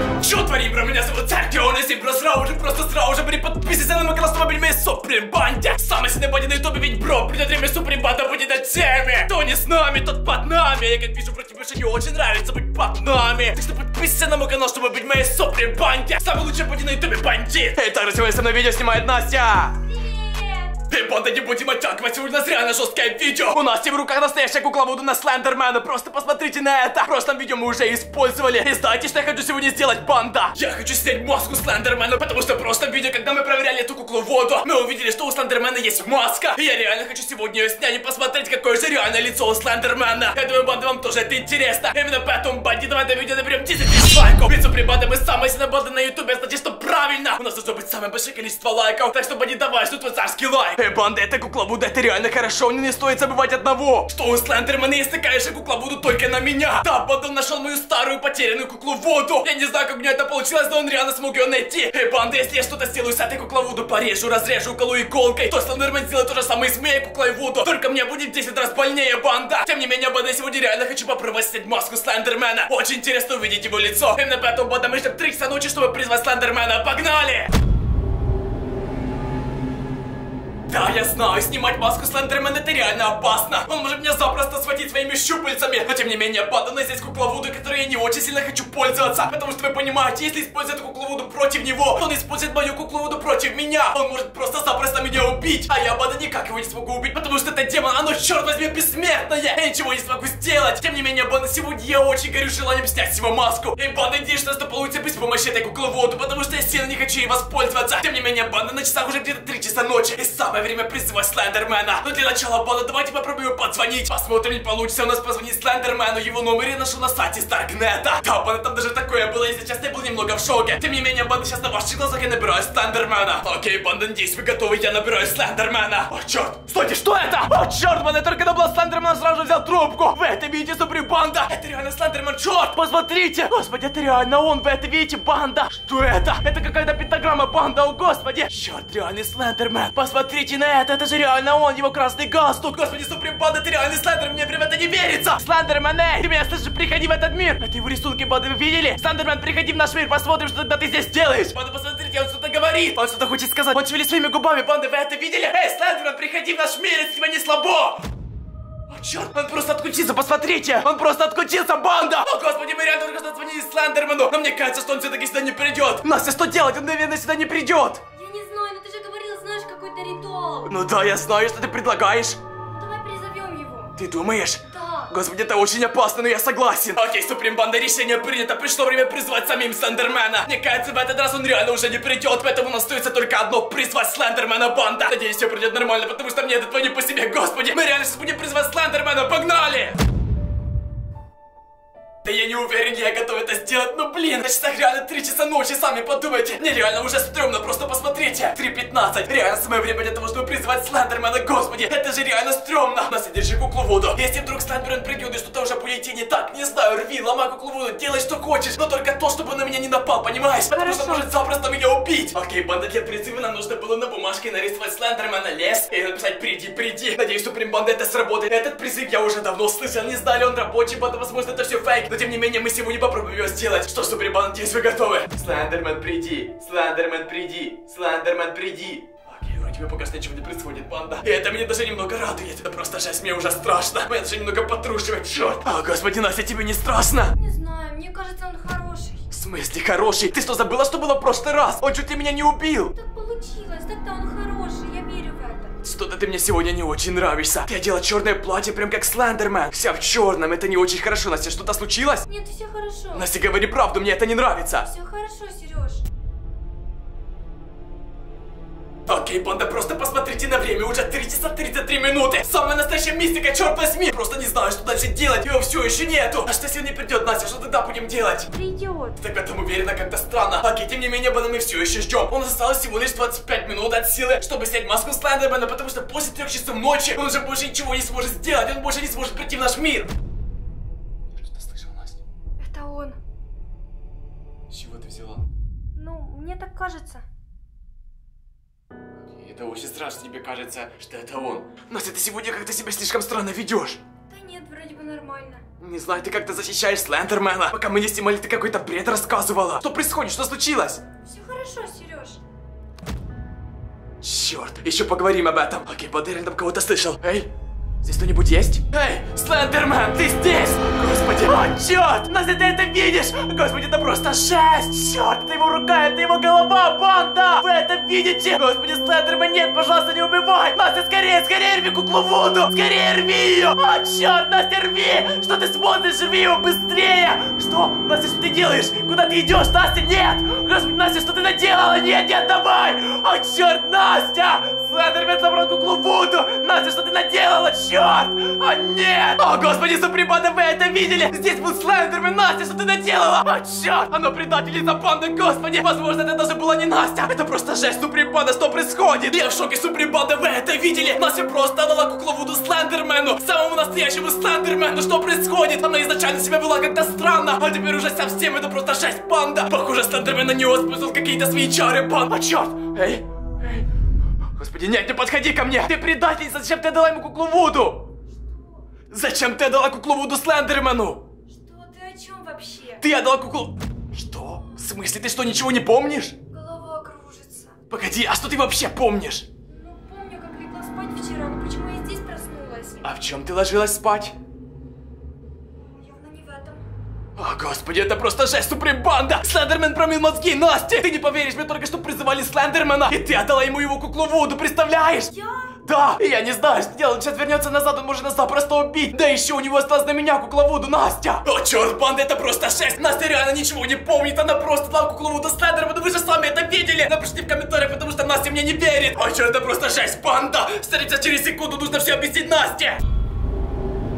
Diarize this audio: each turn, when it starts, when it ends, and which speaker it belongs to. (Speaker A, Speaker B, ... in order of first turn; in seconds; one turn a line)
Speaker A: 0.2-19.9
Speaker B: 19.8-20.8
Speaker A: 20.8-77.5
Speaker A: 80.7-158.0
Speaker A: 158.9-168.0
Speaker B: 168.1-170.7
Speaker A: 170.7-172.4
Speaker B: 172.7-173.9
Speaker A: 174.0-190.0
Speaker B: 174.7-175.1
Speaker A: 192.2-237.3
Speaker B: 210.7-211.3
Speaker B: 237.3-239.2
Speaker A: 239.3-242.9
Speaker B: 242.9-245.7
Speaker A: 245.8-252.3
Speaker B: 252.3-253.2
Speaker A: 253.1-254.9
Speaker B: 254.8-256.0
Speaker A: 259.1-268.5
Speaker B: 268.5-269.2
Speaker A: 269.2-280.1
Speaker A: 281.4-282.2
Speaker B: 282.6-283.2
Speaker A: 284.7-285.4
Speaker B: 285.9-287.2
Speaker A: 289.2-294.0
Speaker B: 294.3-295.6
Speaker A: 295.8-301.0
Speaker B: 301.2-302.4
Speaker A: 304.2-307.5
Speaker A: 308.0-363.9
Speaker A: 364.6-368.1
Speaker B: 368.3-368.9
Speaker A: 369.1-371.2
Speaker B: 371.5-373.0
Speaker A: 373.0-376.4
Speaker B: 376.5-377.8
Speaker A: 377.9-379.4
Speaker B: 379.6-383.0
Speaker A: 383.0-384.3
Speaker B: 385.7-386.8
Speaker A: 387.4-413.0
Speaker B: 395.3-395.8